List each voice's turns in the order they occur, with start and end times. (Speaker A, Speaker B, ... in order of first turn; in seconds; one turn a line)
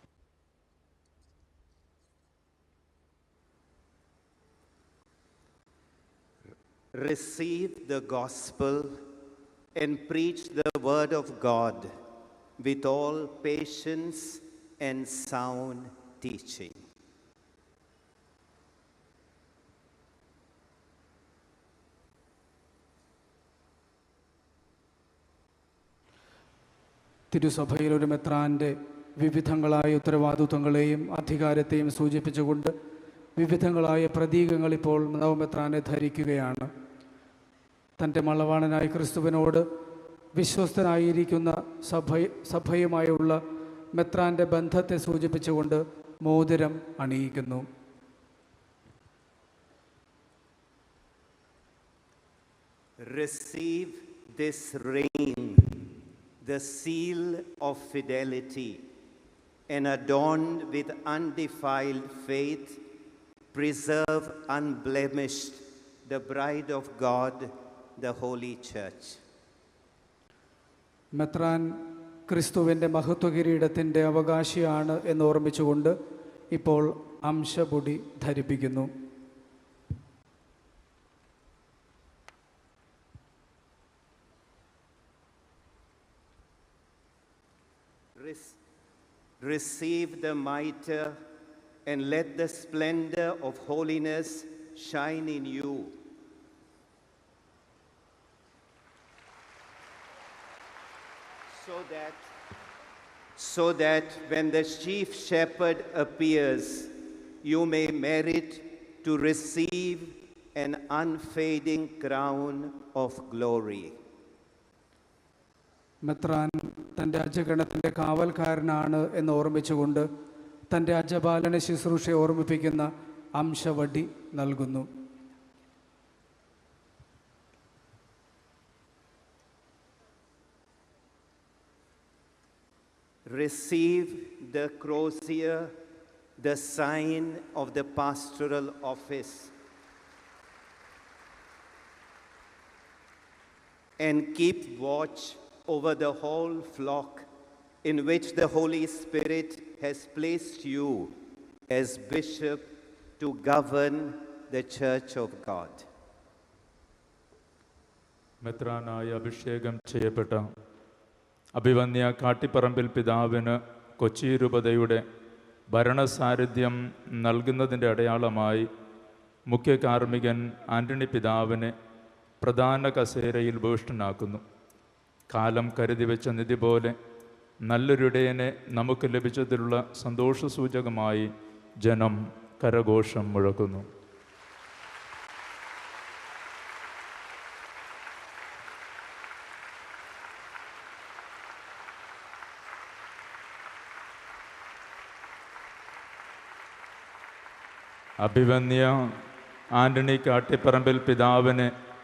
Speaker A: 6.9-9.0
Speaker A: 9.7-11.9
Speaker A: 12.6-16.8
Speaker B: 27.3-32.7
Speaker B: 33.4-36.7
Speaker B: 38.0-39.6
Speaker B: 40.4-43.4
Speaker B: 43.9-47.6
Speaker A: 53.0-55.8
Speaker A: 56.4-58.8
Speaker A: 59.7-62.8
Speaker A: 63.5-69.2
Speaker B: 71.2-71.7
Speaker B: 72.3-76.0
Speaker B: 76.5-78.9
Speaker A: 88.2-88.6
Speaker A: 89.4-91.2
Speaker A: 91.8-96.0
Speaker A: 101.5-102.3
Speaker A: 103.4-114.0
Speaker B: 116.0-120.1
Speaker B: 120.7-124.9
Speaker A: 133.3-135.7
Speaker A: 136.4-139.5
Speaker A: 144.0-147.3
Speaker A: 147.8-151.1
Speaker A: 151.7-155.9
Speaker C: 158.4-160.4
Speaker C: 161.6-165.0
Speaker C: 165.7-168.7
Speaker C: 169.5-171.7
Speaker C: 172.4-174.4
Speaker C: 175.3-176.9
Speaker C: 177.7-181.3
Speaker C: 181.8-183.8
Speaker C: 198.2-198.9
Speaker C: 199.8-201.7